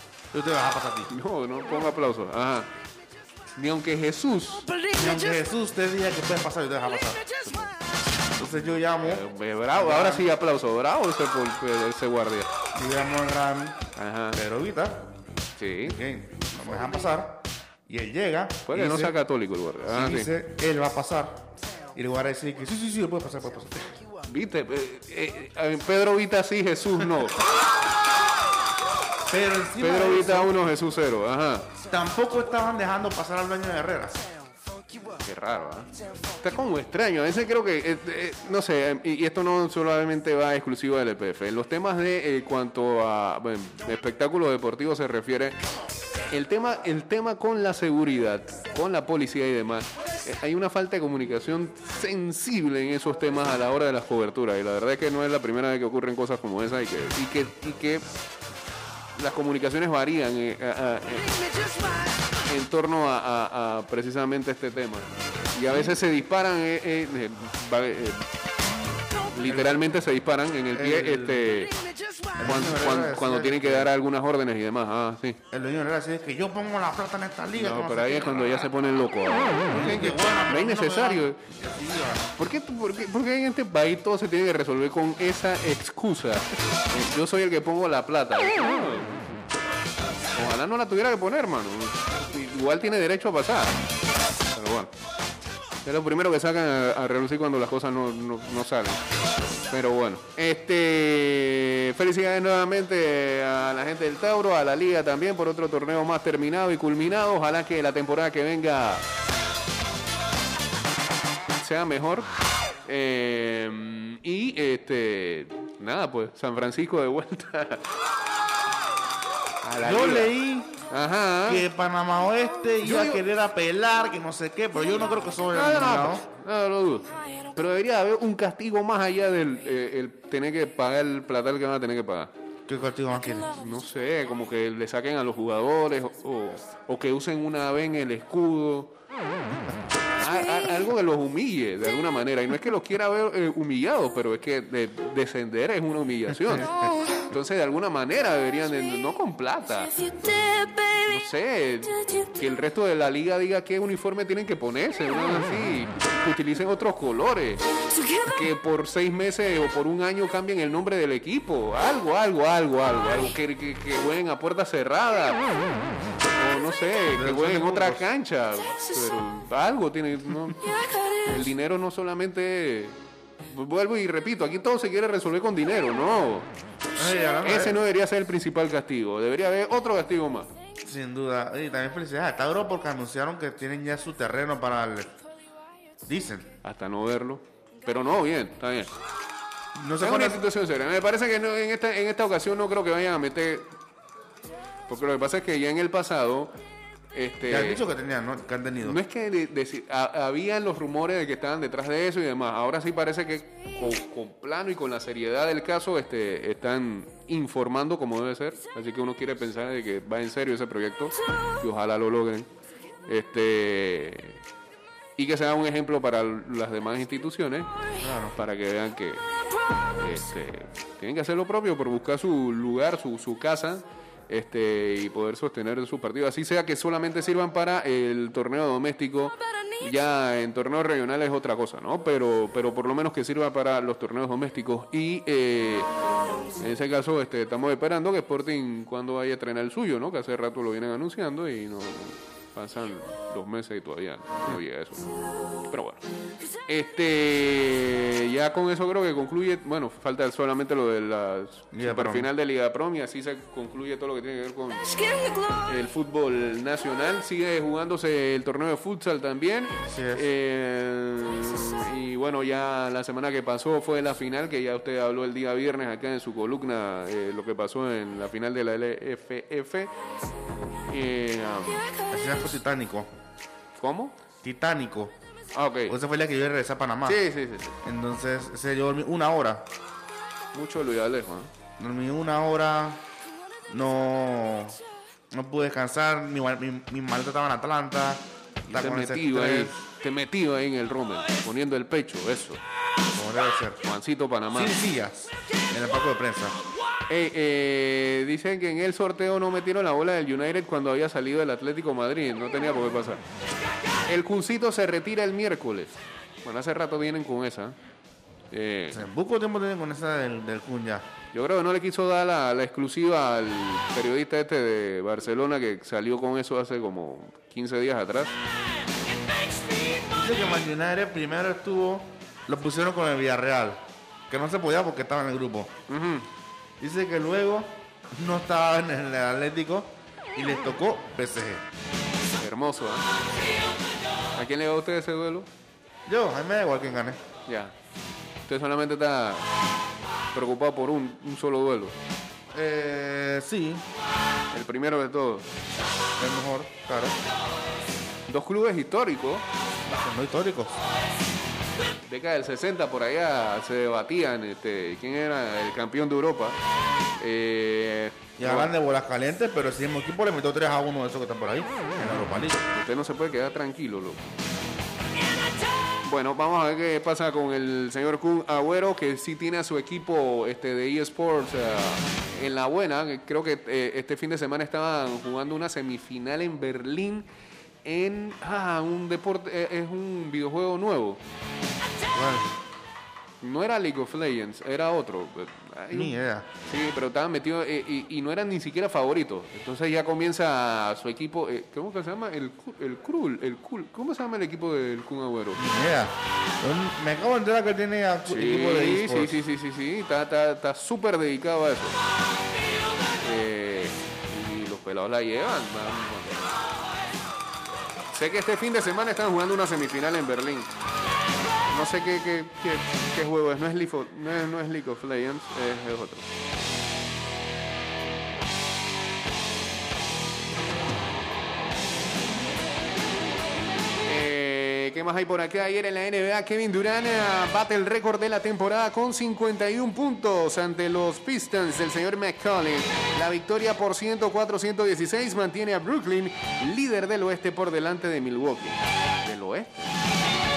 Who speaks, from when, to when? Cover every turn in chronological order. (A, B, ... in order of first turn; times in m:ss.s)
0:00.3-0:01.1 A
0:01.1-0:02.7 B
0:03.6-0:04.8 B
0:04.8-0:07.2 A
0:07.4-0:07.7 B
0:08.4-0:10.3 A
0:09.0-0:12.5 B
0:12.7-0:13.8 A
0:14.0-0:14.4 B
0:14.3-0:15.0 A
0:15.6-0:16.0 B
0:15.8-0:19.2 A
0:18.7-0:20.3 B
0:19.9-0:24.0 A
0:24.3-0:27.4 B
0:29.3-0:30.7 A
0:29.8-0:31.7 B
0:31.9-0:34.2 A
0:35.2-0:35.9 B
0:36.4-0:45.6 B
0:46.3-0:58.0 B
0:59.2-1:01.5 B
1:02.4-1:08.2 B
1:05.6-1:06.0 A
1:09.3-1:11.8 B
1:09.4-1:09.8 A
1:10.7-1:11.6 A
1:12.4-1:13.9 A
1:12.4-1:15.4 B
1:15.5-1:18.7 A
1:17.5-1:21.4 B
1:19.7-1:22.3 A
1:22.4-1:29.4 B
1:30.3-1:33.8 B
1:34.5-1:34.9 B
1:35.8-1:39.0 B
1:39.7-1:49.0 B
1:51.6-1:52.3 B
1:52.8-1:57.9 B
1:59.6-2:00.4 B
1:59.8-2:00.8 A
2:00.9-2:01.6 B
2:01.4-2:06.2 A
2:02.8-2:03.2 B
2:05.5-2:12.3 B
2:12.7-2:13.5 A
2:13.6-2:18.9 B
2:20.2-2:45.5 B
2:46.3-2:53.0 B
2:47.2-2:48.0 A
2:53.5-2:56.5 B
2:57.0-2:57.8 A
2:57.0-3:00.5 B
3:00.8-3:05.1 A
3:06.0-3:06.5 A
3:06.6-3:09.0 B
3:09.8-3:10.4 A
3:10.0-3:13.8 B
3:14.9-3:16.5 B
3:17.1-3:17.8 B
3:17.5-3:19.0 A
3:18.8-3:32.5 B
3:33.1-3:34.4 B
3:35.2-3:37.7 B
3:38.0-3:38.4 A
3:38.3-3:39.2 B
3:40.0-3:55.9 B
3:56.6-4:05.1 B
4:05.7-4:06.0 B
4:06.7-4:29.9 B
4:11.7-4:12.3 A
4:19.9-4:20.3 A
4:30.9-4:31.9 B
4:32.1-4:33.1 A
4:33.8-4:34.1 B
4:34.4-4:35.1 A
4:35.5-4:36.0 B
4:35.9-4:37.2 A
4:37.0-4:37.8 B
4:37.8-4:39.6 A
4:40.5-4:41.5 B
4:41.8-4:43.0 A
4:43.7-4:44.8 A
4:45.3-4:49.7 A
4:48.7-4:52.6 B
4:53.2-4:53.8 A
4:53.8-4:54.8 B
4:54.5-4:56.6 A
4:57.1-5:03.2 B
5:04.1-5:07.8 B
5:08.5-5:09.1 B
5:08.9-5:11.0 A
5:11.3-5:18.4 B
5:19.7-5:25.7 A
5:25.9-5:26.3 B
5:26.8-5:31.6 A
5:32.4-5:33.1 B
5:34.4-5:35.5 B
5:36.1-5:37.2 A
5:37.5-5:37.7 B
5:38.5-5:39.5 B
5:40.3-5:42.0 B
5:42.5-5:43.8 A
5:44.5-5:45.5 B
5:46.2-5:47.2 A
5:48.3-5:49.4 B
5:49.9-5:50.8 A
5:52.0-5:56.6 B
5:57.2-5:58.7 B
5:58.4-6:02.6 A
6:02.7-6:04.3 B
6:06.0-6:17.3 B
6:17.8-6:21.2 B
6:22.1-6:22.5 A
6:23.4-6:35.6 B
6:25.9-6:26.5 A
6:35.6-6:39.4 A
6:38.3-6:42.0 B
6:43.2-6:46.6 B
6:48.1-6:50.7 B
6:51.7-6:56.3 B
7:04.1-7:19.9 B